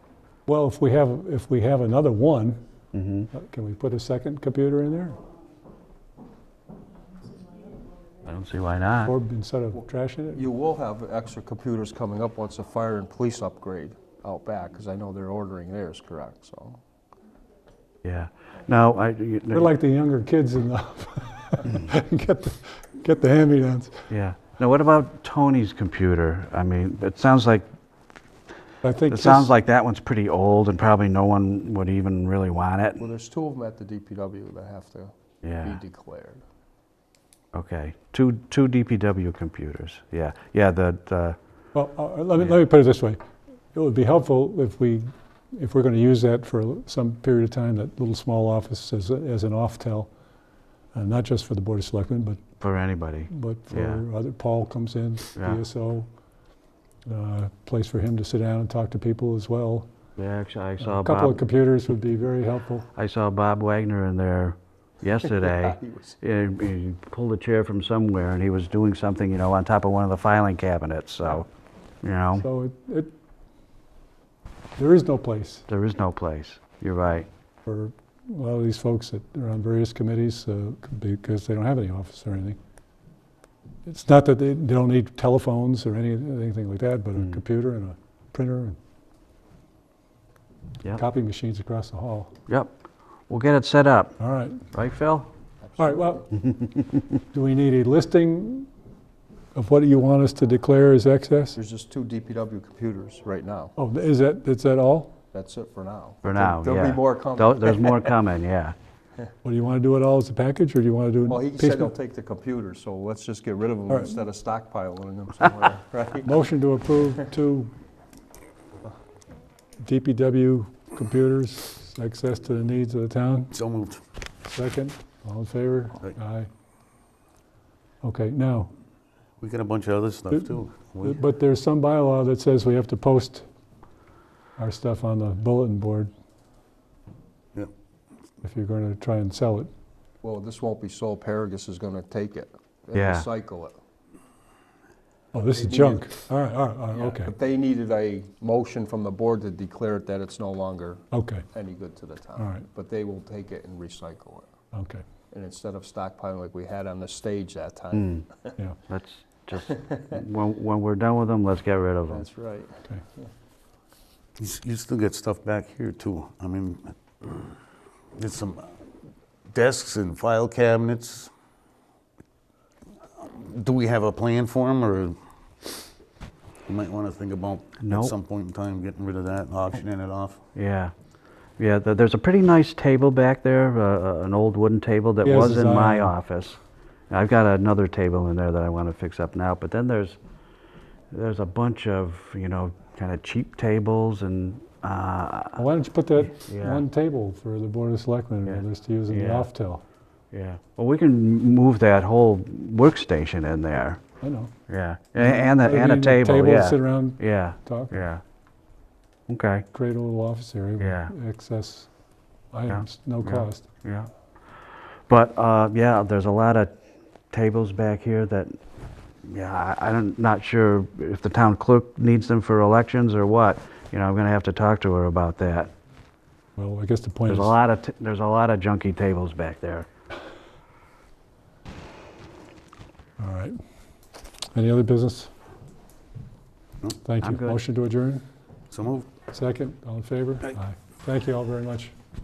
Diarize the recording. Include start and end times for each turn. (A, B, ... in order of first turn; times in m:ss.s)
0:00.5-0:02.6 A
0:02.9-0:03.3 B
0:03.3-0:05.2 A
0:08.2-0:09.1 B
0:09.0-0:10.4 A
0:10.3-0:16.8 C
0:18.0-0:19.7 B
0:19.5-0:24.0 A
0:24.1-0:27.7 B
0:28.8-0:29.5 A
0:29.1-0:33.0 B
0:33.0-0:36.4 C
0:35.4-0:35.8 B
0:37.5-0:41.4 B
0:41.7-0:43.2 A
0:43.7-0:50.1 A
0:50.9-0:52.4 A
0:52.6-0:54.0 B
0:53.3-0:56.1 A
0:57.0-0:59.9 A
1:00.2-1:01.4 B
1:00.8-1:02.9 A
1:02.9-1:11.5 B
1:05.3-1:06.2 C
1:12.0-1:12.4 B
1:12.4-1:13.1 A
1:14.8-1:15.7 A
1:15.7-1:17.3 B
1:17.7-1:22.6 A
1:23.9-1:28.8 A
1:30.9-1:32.3 A
1:33.3-1:34.2 B
1:34.2-1:34.6 A
1:34.7-1:35.3 B
1:35.6-1:36.3 C
1:35.8-1:36.3 A
1:37.3-1:38.7 A
1:39.6-1:41.6 A
1:41.5-1:43.7 C
1:43.8-1:45.1 A
1:45.3-1:48.2 C
1:46.2-1:48.8 B
1:49.4-1:51.9 A
1:51.3-1:56.4 C
1:56.2-1:57.7 A
1:59.8-2:03.5 A
2:03.5-2:04.0 D
2:04.4-2:06.5 A
2:08.0-2:08.7 A
2:09.4-2:11.2 D
2:10.3-2:13.5 A
2:14.6-2:16.1 A
2:18.4-2:19.7 A
2:20.2-2:23.8 C
2:23.0-2:23.3 B
2:25.3-2:27.3 A
2:25.4-2:26.2 C
2:26.9-2:34.5 C
2:31.1-2:31.4 A
2:32.4-2:32.6 A
2:34.7-2:35.0 A
2:35.3-2:38.5 C
2:37.9-2:38.2 B
2:38.9-2:42.3 B
2:39.7-2:40.1 C
2:42.1-2:43.3 C
2:44.4-2:47.6 D
2:48.2-2:48.8 D
2:49.5-2:51.3 D
2:53.2-2:55.2 D
2:56.7-3:00.4 D
2:57.8-2:58.1 B
3:00.6-3:00.9 B
3:01.6-3:06.6 B
3:05.2-3:06.1 A
3:07.1-3:10.2 B
3:11.1-3:15.6 B
3:15.6-3:19.8 A
3:16.4-3:16.8 B
3:18.5-3:19.5 B
3:20.3-3:24.0 B
3:24.2-3:24.5 A
3:24.7-3:28.2 B
3:25.2-3:28.0 A
3:29.3-3:29.7 B
3:29.7-3:31.9 A
3:30.8-3:31.1 B
3:32.5-3:33.6 A
3:32.7-3:34.1 B
3:35.1-3:36.7 B
3:37.3-3:38.6 B
3:39.2-3:45.7 B
3:46.6-3:47.5 A
3:47.3-3:49.9 B
3:53.2-3:53.6 A
3:54.5-3:55.3 A
3:57.0-3:58.2 A
3:57.2-3:57.6 B
3:58.7-3:59.1 D
3:59.3-4:02.0 A